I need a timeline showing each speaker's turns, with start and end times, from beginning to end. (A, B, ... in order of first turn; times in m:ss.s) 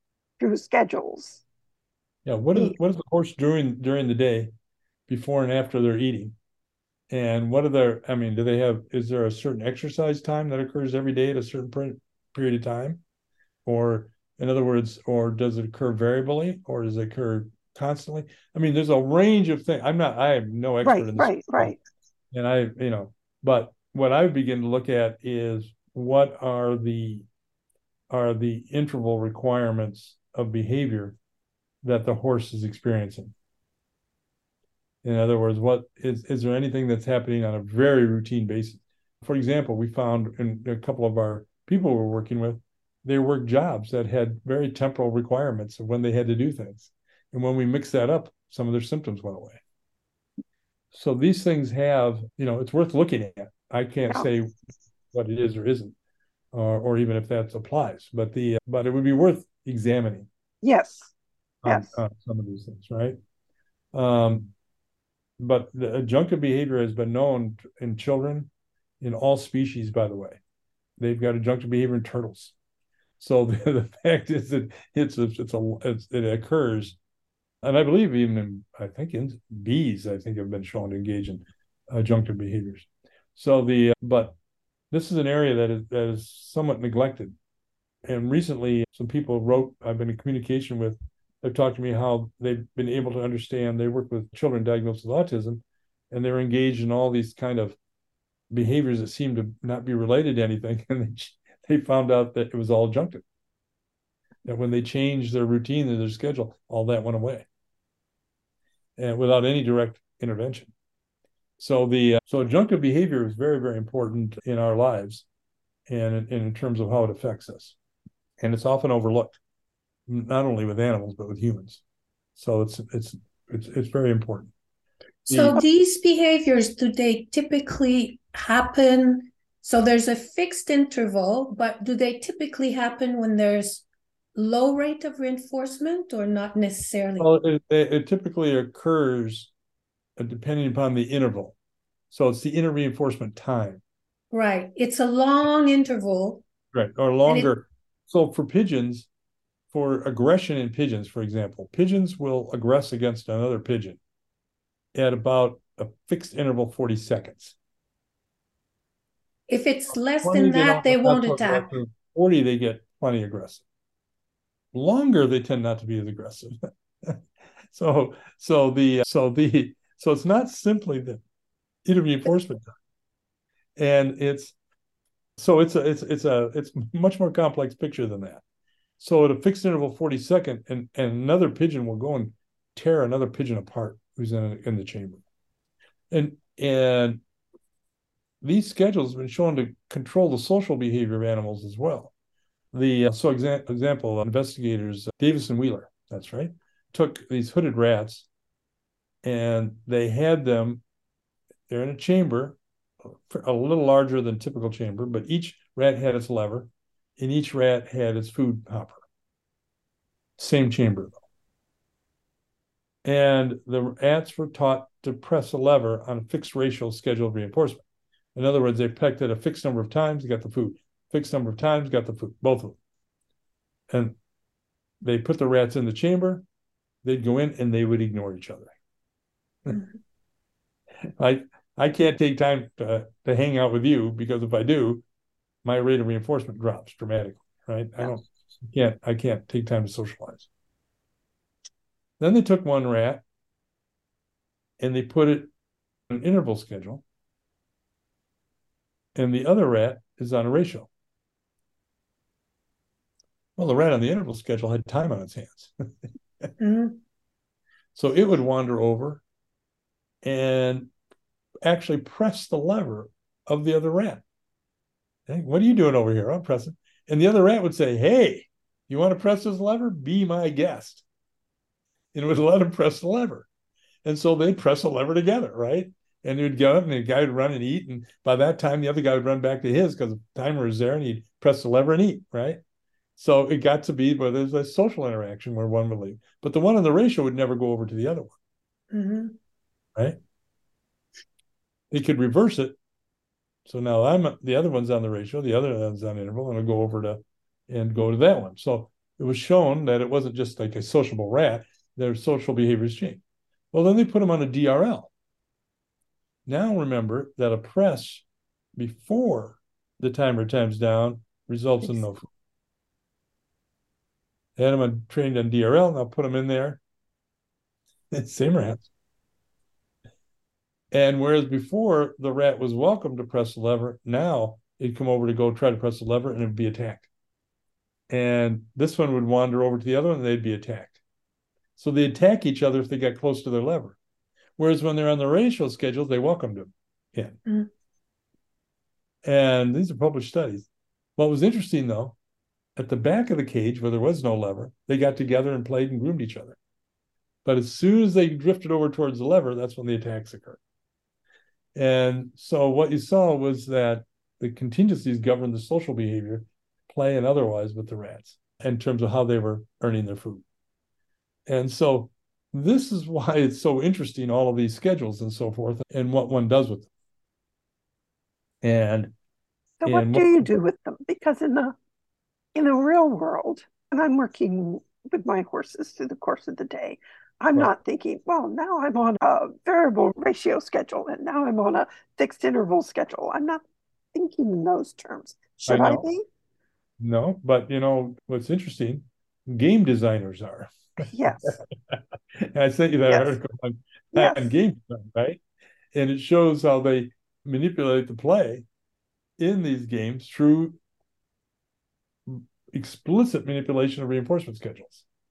0:00.4-0:01.4 A
0:02.2-0:04.5 B
0:05.1-0:06.3 B
0:07.1-0:13.0 B
0:13.6-0:21.8 B
0:20.8-0:21.8 A
0:22.3-0:27.2 B
0:28.1-0:31.2 B
0:31.8-0:33.3 B
0:35.0-0:49.6 B
0:50.9-0:54.5 B
0:55.1-0:55.9 B
0:56.5-1:00.3 B
1:00.6-1:01.1 A
1:01.6-1:03.2 B
1:01.6-1:01.9 A
1:03.9-1:04.5 B
1:05.4-1:08.5 B
1:09.0-1:10.4 B
1:11.0-1:12.5 B
1:13.2-1:17.0 B
1:17.6-1:24.4 B
1:24.9-1:27.4 B
1:28.0-1:37.8 B
1:38.5-1:43.2 B
1:44.4-1:47.5 B
1:49.0-1:50.7 B
1:51.6-1:55.2 B
1:55.9-1:57.8 B
1:58.4-1:59.4 B
2:00.1-2:01.8 B
2:02.4-2:04.5 B
2:05.3-2:05.6 B
2:05.3-2:17.3 C
2:17.2-2:19.5 B
2:20.2-2:21.6 B
2:22.1-2:23.8 B
2:24.3-2:26.4 C
2:26.7-2:29.1 B
2:27.3-2:27.5 C
2:29.7-2:34.0 B
2:34.9-2:37.6 B
2:39.5-2:41.7 C
2:40.2-2:43.6 B
2:44.7-2:47.2 B
2:47.7-2:51.2 B
2:51.8-2:52.7 B
2:53.8-2:54.5 B
2:55.4-2:58.4 B
2:59.0-3:05.2 B
3:06.1-3:07.2 B
3:08.4-3:12.1 B
3:12.7-3:18.3 B
3:19.2-3:20.8 B
3:21.7-3:22.6 B
3:23.1-3:29.0 B
3:30.4-3:31.2 B
3:33.0-3:37.8 B
3:38.3-3:42.8 B
3:43.9-3:44.2 B
3:45.0-3:46.4 B
3:47.0-3:48.7 B
3:51.2-3:55.0 B
3:55.6-4:00.5 B
4:02.2-4:03.2 B
4:04.8-4:05.5 B
4:06.1-4:07.0 B
4:09.1-4:10.9 B
4:13.6-4:15.7 B
4:16.6-4:17.0 C
4:17.9-4:19.2 B
4:20.2-4:20.9 B
4:21.6-4:24.2 B
4:25.3-4:31.0 B
4:32.1-4:33.5 B
4:34.0-4:42.6 B
4:43.2-4:48.4 B
4:48.9-4:49.4 C
4:51.9-4:52.8 B
4:53.6-5:05.1 B
5:06.4-5:08.2 B
5:08.8-5:12.2 B
5:14.6-5:16.8 B
5:18.1-5:18.9 B
5:20.9-5:27.1 B
5:28.1-5:31.0 B
5:31.8-5:34.0 B
5:34.6-5:37.4 B
5:39.2-5:42.2 B
5:42.8-5:46.6 B
5:47.4-5:50.6 B
5:51.7-6:00.4 B
6:01.5-6:06.9 B
6:08.6-6:09.1 B
6:09.8-6:11.7 A
6:09.8-6:10.5 B
6:12.5-6:23.6 A
6:24.1-6:26.2 A
6:25.6-6:26.1 B
6:27.0-6:35.4 B
6:31.1-6:31.6 A
6:33.1-6:33.4 A
6:34.1-6:34.5 A
6:35.9-6:38.6 B
6:39.4-6:40.8 B
6:42.3-6:45.0 B